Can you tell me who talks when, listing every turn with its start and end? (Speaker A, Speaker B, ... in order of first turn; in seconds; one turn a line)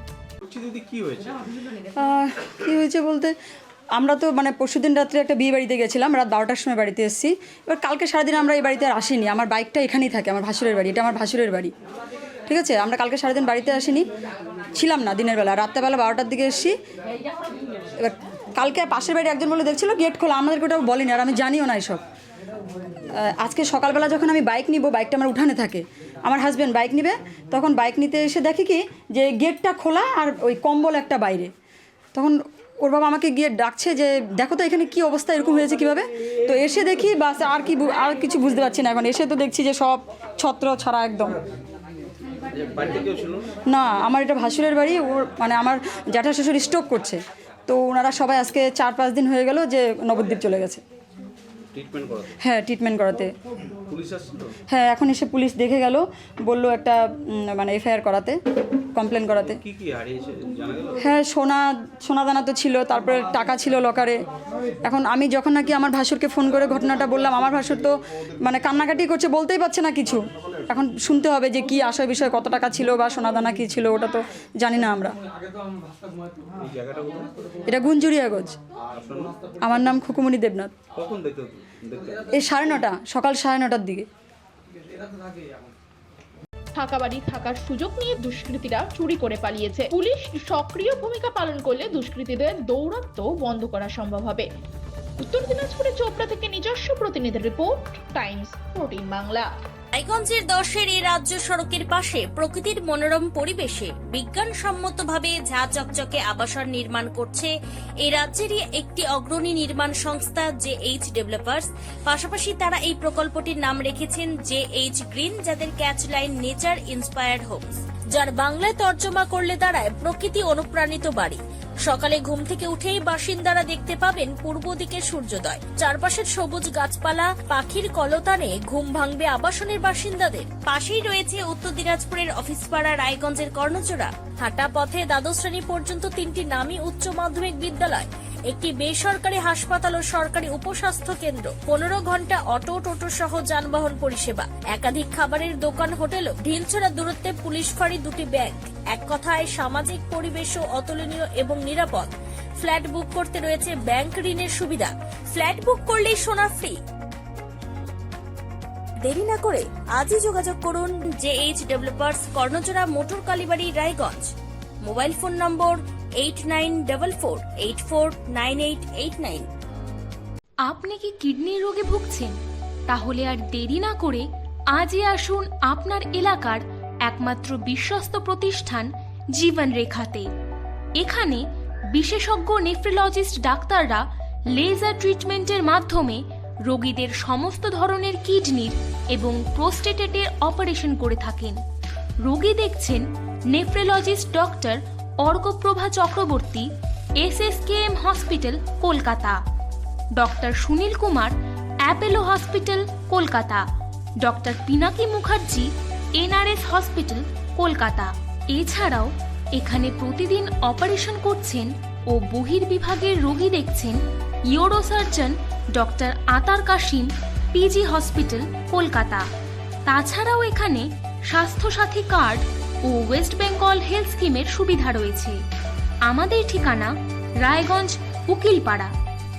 Speaker A: 0.4-1.4
Speaker B: 2.0-3.3
Speaker B: 4.0-11.7
Speaker B: 12.5-14.1
Speaker B: 14.7-16.8
Speaker B: 18.0-22.0
Speaker B: 23.1-31.5
Speaker B: 32.1-41.4
Speaker A: 42.5-43.5
Speaker B: 43.7-50.8
Speaker A: 51.7-52.4
Speaker B: 52.4-53.3
Speaker A: 53.9-54.5
Speaker B: 54.7-58.4
Speaker B: 58.9-59.6
Speaker A: 59.5-61.0
Speaker B: 61.0-64.2
Speaker B: 64.8-75.2
Speaker A: 76.6-77.3
Speaker B: 77.7-78.6
Speaker A: 78.9-79.5
Speaker B: 79.6-80.7
Speaker A: 81.0-82.3
Speaker B: 82.3-84.0
Speaker C: 86.8-94.4
Speaker C: 95.3-99.4
Speaker D: 100.0-107.5
Speaker D: 108.0-156.8
Speaker D: 159.0-164.3
Speaker D: 164.8-169.5
Speaker E: 170.6-180.3
Speaker E: 181.0-191.6
Speaker E: 192.2-199.4
Speaker E: 200.1-203.7
Speaker E: 204.2-219.3
Speaker E: 219.9-225.4
Speaker E: 226.0-228.9